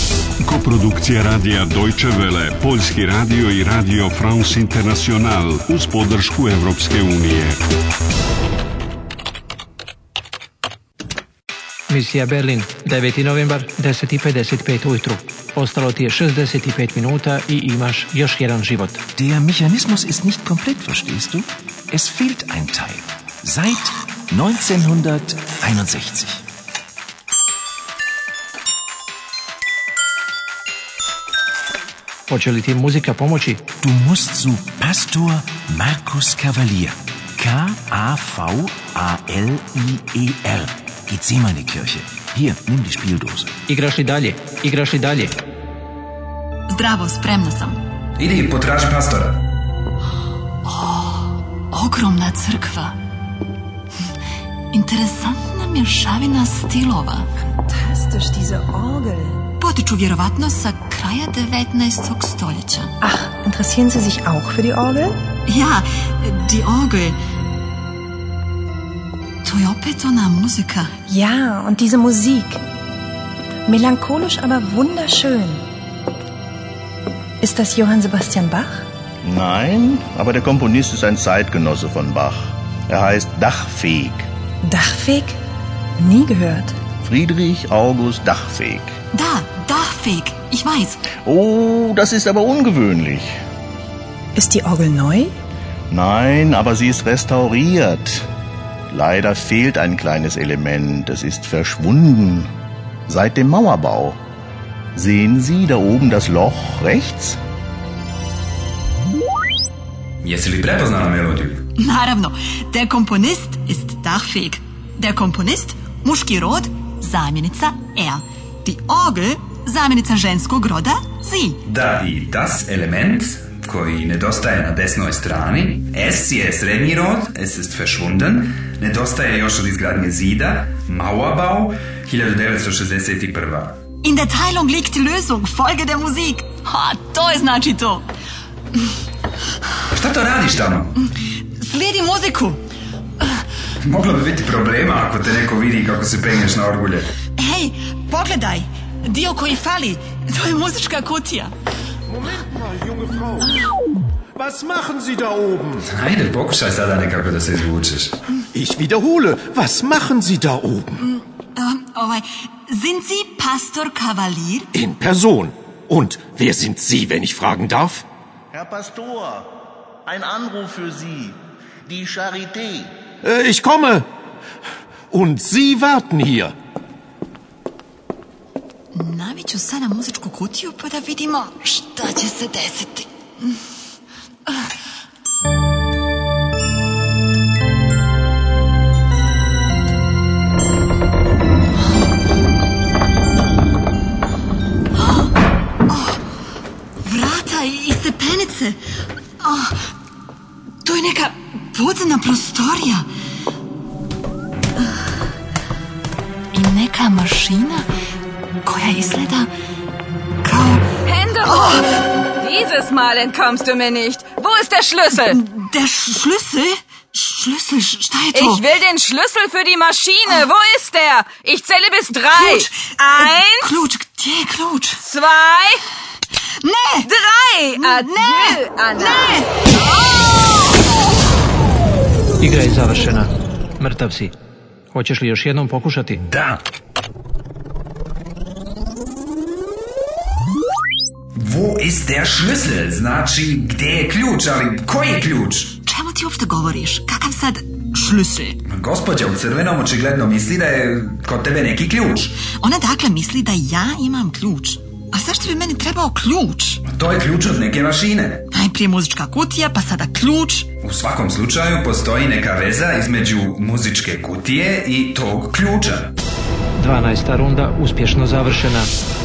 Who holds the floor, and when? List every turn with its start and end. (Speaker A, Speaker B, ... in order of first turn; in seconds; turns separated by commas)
Speaker A: 0.4-7.6, Speaker B: 11.9-19.0, Speaker C: 19.2-26.4, Speaker B: 32.3-33.6, Speaker C: 33.8-43.5, Speaker B: 43.7-45.3, Speaker D: 46.7-47.8, Speaker E: 48.2-49.4, Speaker D: 50.7-53.0, Speaker D: 54.7-57.3, Speaker F: 57.6-59.4, Speaker D: 59.6-62.9, Speaker F: 63.0-65.2, Speaker D: 65.5-67.2, Speaker D: 69.4-70.9, Speaker F: 71.1-72.6, Speaker F: 73.7-75.6, Speaker F: 77.4-78.8, Speaker G: 79.2-84.3, Speaker F: 84.6-85.4, Speaker F: 86.0-86.8, Speaker G: 87.0-88.9, Speaker D: 89.1-91.0, Speaker G: 91.2-93.3, Speaker F: 94.3-95.3, Speaker G: 95.9-98.3, Speaker G: 98.9-102.5, Speaker G: 103.1-104.2, Speaker G: 105.0-107.4, Speaker E: 110.2-111.6, Speaker D: 111.8-121.6, Speaker E: 121.7-133.8, Speaker D: 134.0-138.1, Speaker E: 139.9-140.9, Speaker D: 141.6-142.6, Speaker E: 143.8-147.1, Speaker D: 147.4-151.5, Speaker H: 152.3-153.6, Speaker H: 154.4-155.8, Speaker E: 155.9-158.1, Speaker H: 158.5-161.0, Speaker D: 161.0-164.7, Speaker H: 164.7-168.0, Speaker G: 168.5-169.5, Speaker G: 170.1-172.9, Speaker H: 173.2-174.1, Speaker H: 175.1-176.5, Speaker D: 178.9-183.5, Speaker D: 195.9-196.2, Speaker D: 197.0-198.8, Speaker D: 199.4-199.8, Speaker D: 200.8-203.1, Speaker D: 206.5-207.9, Speaker D: 208.7-209.5, Speaker D: 210.4-211.9, Speaker I: 211.1-211.8, Speaker I: 212.4-215.4, Speaker D: 215.1-218.8, Speaker I: 218.3-223.7, Speaker D: 222.3-225.0, Speaker I: 225.0-225.8, Speaker D: 226.6-227.1, Speaker I: 227.0-229.5, Speaker D: 227.7-229.5, Speaker B: 232.4-234.3, Speaker B: 234.9-236.2, Speaker E: 236.2-236.6, Speaker E: 241.4-245.8, Speaker D: 245.9-248.6, Speaker E: 248.7-252.4, Speaker D: 252.5-256.8, Speaker E: 256.9-258.4, Speaker D: 258.5-260.7, Speaker E: 260.8-266.1, Speaker B: 266.8-268.9